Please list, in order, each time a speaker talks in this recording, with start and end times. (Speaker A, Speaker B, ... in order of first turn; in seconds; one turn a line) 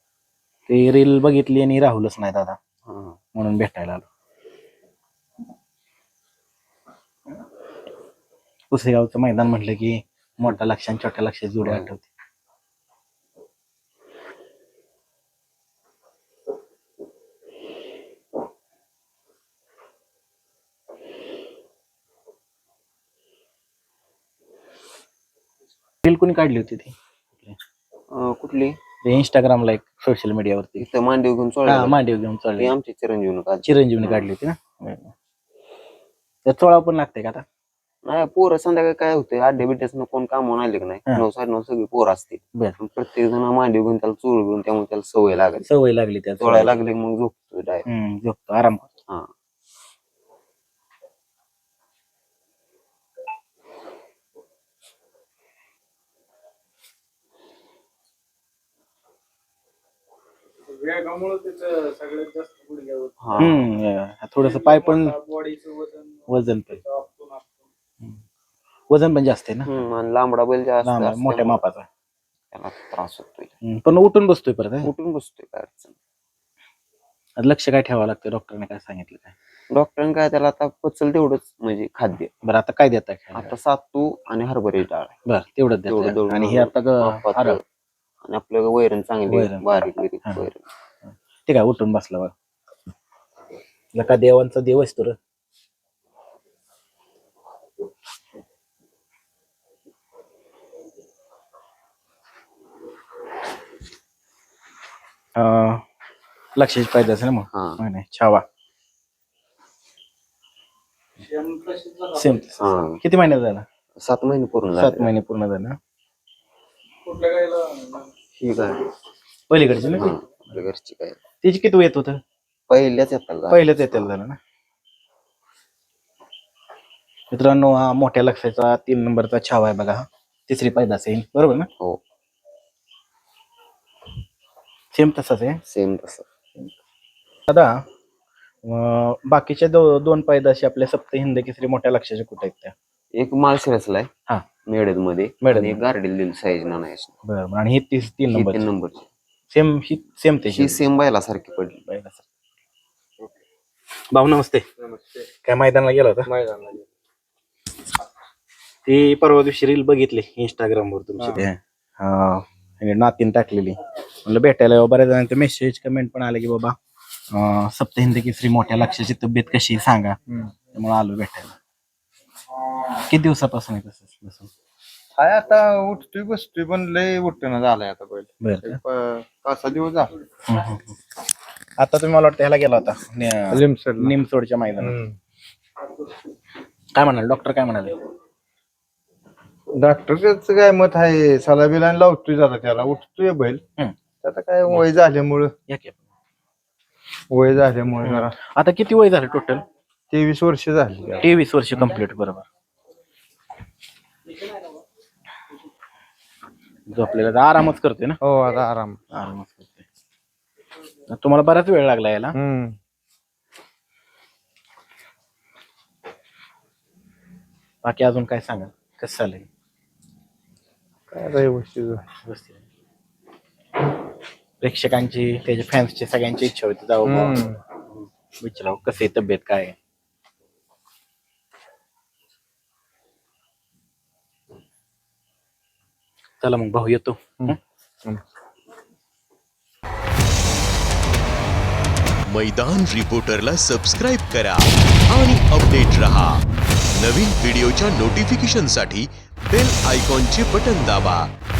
Speaker A: 0.7-2.6
Speaker B: 2.9-3.2
Speaker A: 3.4-4.0
Speaker A: 8.7-12.1
Speaker A: 26.0-27.6
Speaker B: 28.1-28.8
Speaker A: 29.1-30.9
Speaker B: 30.8-32.0
Speaker A: 31.7-32.7
Speaker B: 32.6-34.3
Speaker A: 33.6-35.1
Speaker A: 36.5-37.4
Speaker B: 38.0-45.7
Speaker A: 45.7-46.8
Speaker B: 46.4-47.9
Speaker A: 47.9-48.9
Speaker C: 60.8-62.9
Speaker B: 63.2-63.6
Speaker A: 63.4-65.2
Speaker C: 65.3-66.0
Speaker A: 66.3-66.8
Speaker A: 68.9-69.7
Speaker B: 69.7-71.6
Speaker A: 70.8-71.9
Speaker B: 72.5-73.5
Speaker A: 73.6-74.9
Speaker B: 74.8-76.0
Speaker A: 77.4-79.3
Speaker B: 79.7-82.3
Speaker A: 82.4-83.5
Speaker B: 83.3-85.2
Speaker A: 85.3-87.6
Speaker B: 85.9-87.6
Speaker B: 88.2-90.6
Speaker A: 89.3-89.7
Speaker A: 91.5-92.3
Speaker A: 94.0-95.2
Speaker A: 105.4-105.8
Speaker A: 106.5-108.4
Speaker B: 107.5-107.8
Speaker C: 111.5-111.9
Speaker A: 112.0-113.7
Speaker B: 112.6-113.0
Speaker B: 114.0-115.1
Speaker A: 114.8-115.8
Speaker C: 117.2-118.0
Speaker B: 118.3-118.9
Speaker A: 119.5-120.1
Speaker B: 119.9-121.2
Speaker A: 121.4-122.2
Speaker B: 122.7-124.1
Speaker A: 123.5-124.4
Speaker A: 127.3-131.7
Speaker A: 134.9-135.6
Speaker B: 135.7-136.3
Speaker A: 137.5-137.8
Speaker A: 138.6-142.7
Speaker B: 143.2-144.1
Speaker B: 144.7-147.1
Speaker A: 145.4-145.8
Speaker A: 147.3-148.7
Speaker B: 148.3-149.1
Speaker A: 149.5-150.8
Speaker B: 150.5-151.8
Speaker A: 151.9-152.2
Speaker A: 154.1-154.7
Speaker A: 155.4-156.3
Speaker A: 158.9-166.8
Speaker A: 167.3-170.2
Speaker A: 170.7-171.6
Speaker A: 173.0-174.5
Speaker D: 175.2-180.1
Speaker A: 178.4-178.8
Speaker A: 180.5-180.9
Speaker A: 181.8-185.0
Speaker D: 183.5-184.1
Speaker D: 184.9-185.2
Speaker A: 186.9-188.0
Speaker D: 189.8-193.6
Speaker D: 194.2-195.5
Speaker A: 195.7-196.0
Speaker D: 197.3-198.4
Speaker A: 198.0-199.6
Speaker D: 200.1-201.3
Speaker A: 201.2-202.5
Speaker A: 206.9-208.2
Speaker D: 208.2-209.0
Speaker A: 209.1-209.8
Speaker A: 211.1-212.3
Speaker D: 212.3-212.8
Speaker A: 217.8-219.5
Speaker D: 221.1-222.1
Speaker A: 222.2-222.6
Speaker A: 224.6-227.4
Speaker D: 227.1-227.6
Speaker A: 228.4-229.8
Speaker A: 236.4-237.6
Speaker D: 237.4-238.2
Speaker E: 242.3-251.3